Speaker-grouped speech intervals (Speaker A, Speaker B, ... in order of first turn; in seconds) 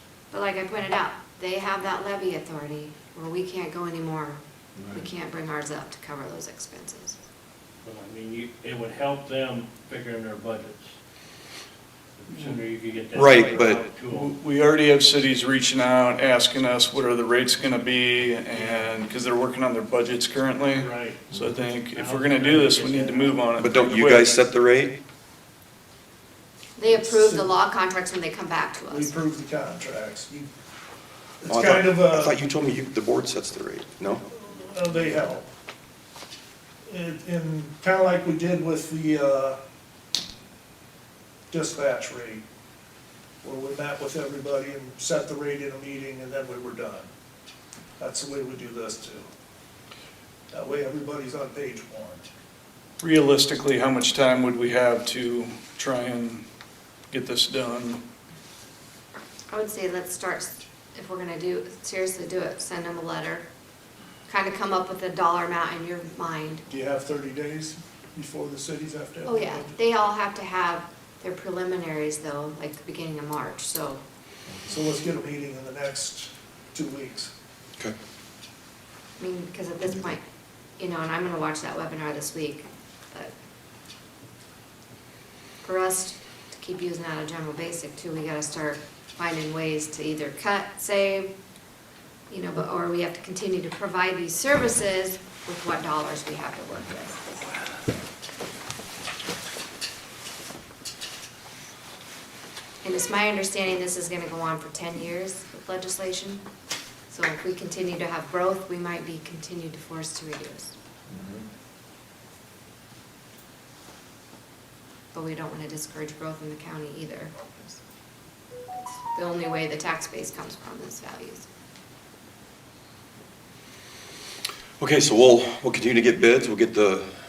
Speaker A: 0.3-7.2, 26.8-29.1, 59.5-63.5, 64.3-66.6, 69.2-74.0, 79.2-80.2, 80.8-83.3, 85.6-91.3, 92.3-97.3, 102.8-106.4, 107.1-110.7, 115.1-117.8, 118.7-121.5
Speaker B: 7.8-10.9, 12.2-14.3, 20.7-21.3, 21.9-23.4
Speaker C: 13.1-13.8, 23.6-24.9, 31.5-34.2, 124.8-127.1
Speaker D: 14.1-24.3, 53.0-56.4, 57.1-58.0
Speaker E: 26.9-27.5, 28.9-30.5, 31.4-32.3, 34.3-35.5, 36.8-39.6, 41.5-42.4, 43.4-47.1, 48.0-49.3, 50.5-52.2, 66.7-69.8, 74.6-77.3